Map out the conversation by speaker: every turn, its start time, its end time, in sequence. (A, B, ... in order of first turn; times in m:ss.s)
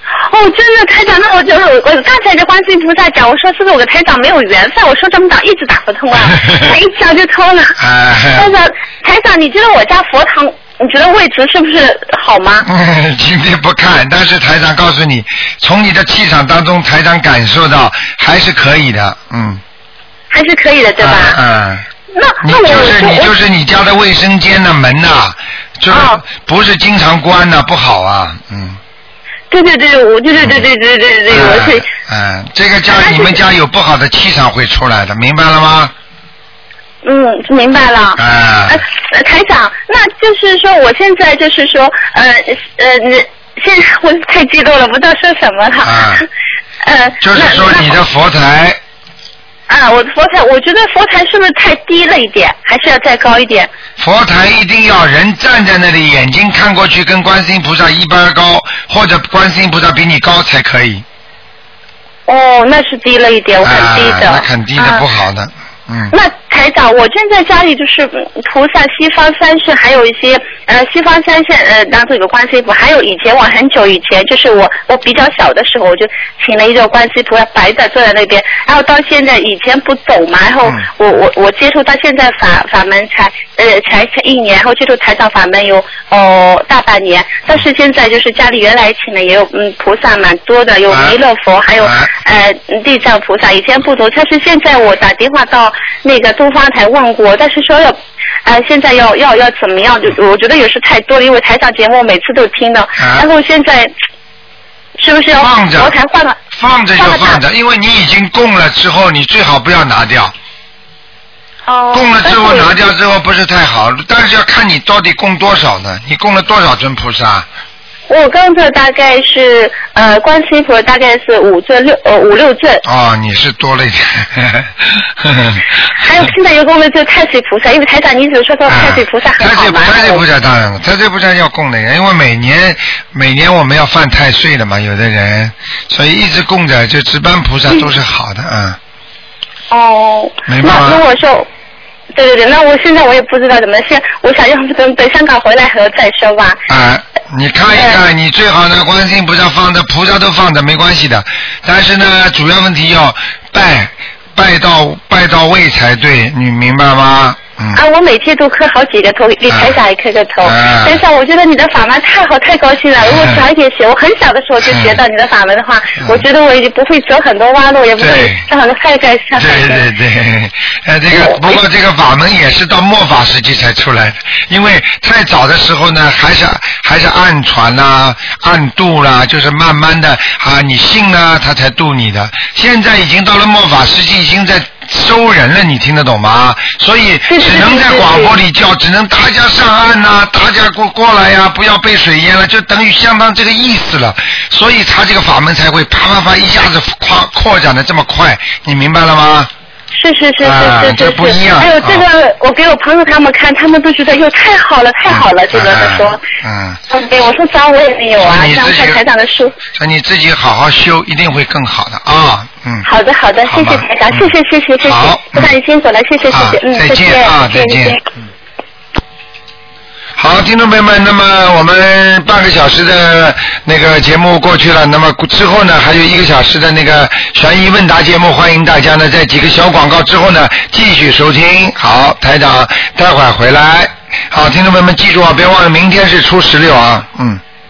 0:00.2-0:07.8 A
0:06.2-0:06.8 B
0:07.8-0:08.5 B
0:08.4-0:12.7 A
0:12.6-0:19.6 B
0:20.3-0:21.4 A
0:21.0-0:21.8 B
0:22.1-0:23.3 A
0:22.4-0:28.8 B
0:25.9-0:26.2 A
0:29.5-0:31.9 A
0:31.3-0:35.9 B
0:32.9-0:33.4 A
0:37.0-0:46.3 A
0:38.2-0:38.8 B
0:45.8-0:46.2 B
0:46.8-0:48.0 A
0:47.2-0:48.8 B
0:49.7-0:53.7 A
0:54.0-1:01.0 B
1:02.3-1:05.0 A
1:03.6-1:06.1 B
1:06.1-1:43.9 A
1:30.9-1:31.2 B
1:31.8-1:32.1 B
1:43.0-1:43.3 B
1:45.0-1:46.4 A
1:45.4-1:45.9 B
1:46.5-1:50.3 B
1:47.0-1:47.4 A
1:51.7-1:52.7 A
1:51.9-1:57.5 B
1:58.1-2:02.8 A
2:02.8-2:06.3 B
2:05.9-2:10.2 A
2:08.7-2:18.8 B
2:19.7-2:21.5 A
2:20.5-2:21.0 B
2:22.2-2:26.6 A
2:26.7-2:37.8 B
2:37.7-2:49.8 A
2:39.5-2:39.8 B
2:40.4-2:41.0 B
2:43.0-2:43.4 B
2:44.6-2:45.0 B
2:48.0-2:48.4 B
2:49.4-3:19.5 B
2:51.1-2:51.6 A
3:07.3-3:08.3 A
3:19.9-3:26.2 A
3:20.4-3:22.0 B
3:25.1-3:26.8 B
3:26.9-3:29.6 A
3:28.2-3:29.0 B
3:29.7-3:32.9 B
3:32.8-3:38.0 A
3:33.5-3:34.3 B
3:34.8-3:35.5 B
3:36.3-3:38.0 B
3:40.2-3:57.4 B